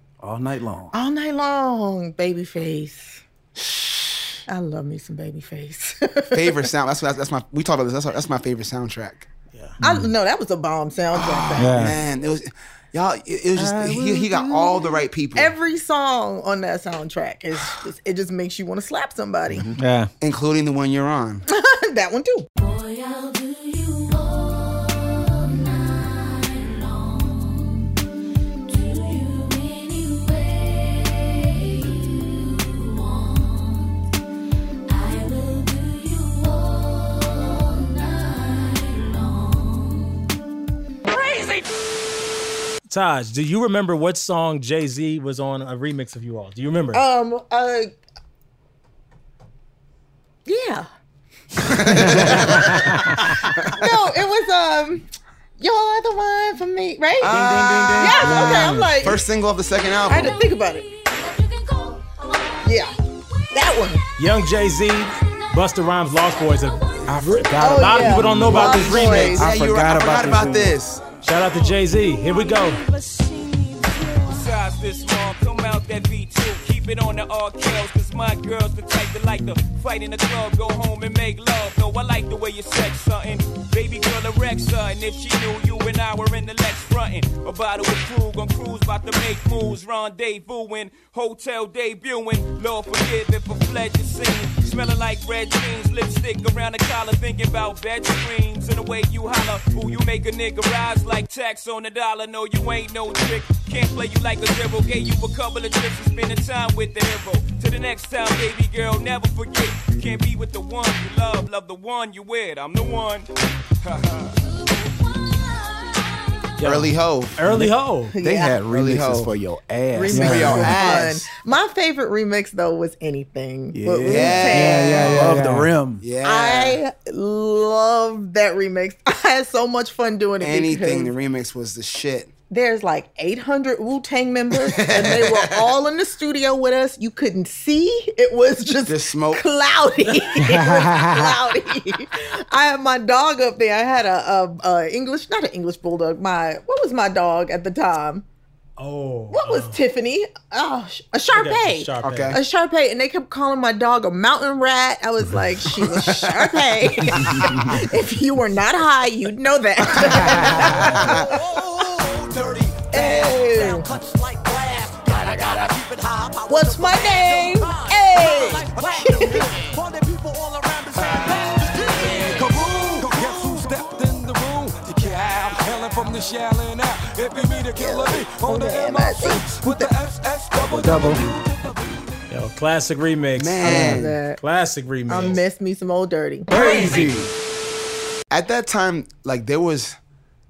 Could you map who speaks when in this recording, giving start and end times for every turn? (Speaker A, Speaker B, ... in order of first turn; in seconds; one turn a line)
Speaker A: 0.2-0.9
Speaker B: 0.9-3.2
Speaker C: 3.6-4.4
Speaker B: 4.5-6.7
Speaker C: 6.3-9.3
Speaker B: 9.8-12.0
Speaker D: 9.8-10.1
Speaker C: 11.1-15.5
Speaker D: 11.6-12.0
Speaker B: 13.6-19.7
Speaker D: 19.8-20.1
Speaker C: 20.2-21.4
Speaker B: 21.5-22.5
Speaker E: 22.6-27.9
Speaker E: 28.7-34.0
Speaker E: 34.9-40.3
Speaker E: 41.1-41.7
Speaker F: 42.9-47.0
Speaker B: 46.9-47.9
Speaker B: 50.5-50.9
Speaker C: 51.6-53.9
Speaker D: 51.9-53.3
Speaker B: 53.6-55.1
Speaker B: 55.6-57.4
Speaker C: 57.2-60.4
Speaker A: 57.3-58.2
Speaker B: 57.9-59.2
Speaker D: 58.2-59.0
Speaker E: 59.7-62.9
Speaker B: 60.1-60.9
Speaker B: 62.6-63.0
Speaker B: 63.5-64.0
Speaker F: 64.2-69.5
Speaker E: 66.3-67.2
Speaker C: 67.1-67.9
Speaker B: 67.6-69.5
Speaker C: 68.4-71.0
Speaker A: 69.4-70.7
Speaker F: 71.2-72.8
Speaker E: 71.7-74.6
Speaker G: 74.3-113.3
Speaker G: 113.8-114.4
Speaker E: 114.5-116.7
Speaker F: 116.6-118.1
Speaker C: 116.6-117.4
Speaker B: 118.1-118.5
Speaker A: 118.2-121.0
Speaker C: 118.6-119.4
Speaker B: 119.9-125.3
Speaker C: 120.1-121.3
Speaker D: 120.1-120.8
Speaker A: 123.7-126.0
Speaker C: 124.1-125.4
Speaker D: 124.5-125.7
Speaker C: 126.0-126.8
Speaker B: 126.2-131.1
Speaker C: 130.4-132.3
Speaker B: 132.5-148.2
Speaker C: 134.5-135.7
Speaker C: 138.9-139.4
Speaker D: 140.4-141.3
Speaker F: 148.8-149.8
Speaker B: 149.3-161.4
Speaker F: 151.3-152.4
Speaker C: 152.0-152.4
Speaker C: 155.8-156.5
Speaker C: 160.1-161.3
Speaker H: 161.1-181.8
Speaker B: 162.9-163.9
Speaker B: 166.5-169.5
Speaker B: 177.7-179.9
Speaker D: 180.6-181.3
Speaker F: 182.3-185.4
Speaker C: 183.3-184.2
Speaker B: 183.6-184.4
Speaker D: 183.7-184.0
Speaker B: 185.1-186.8
Speaker A: 186.5-187.3
Speaker C: 188.3-190.0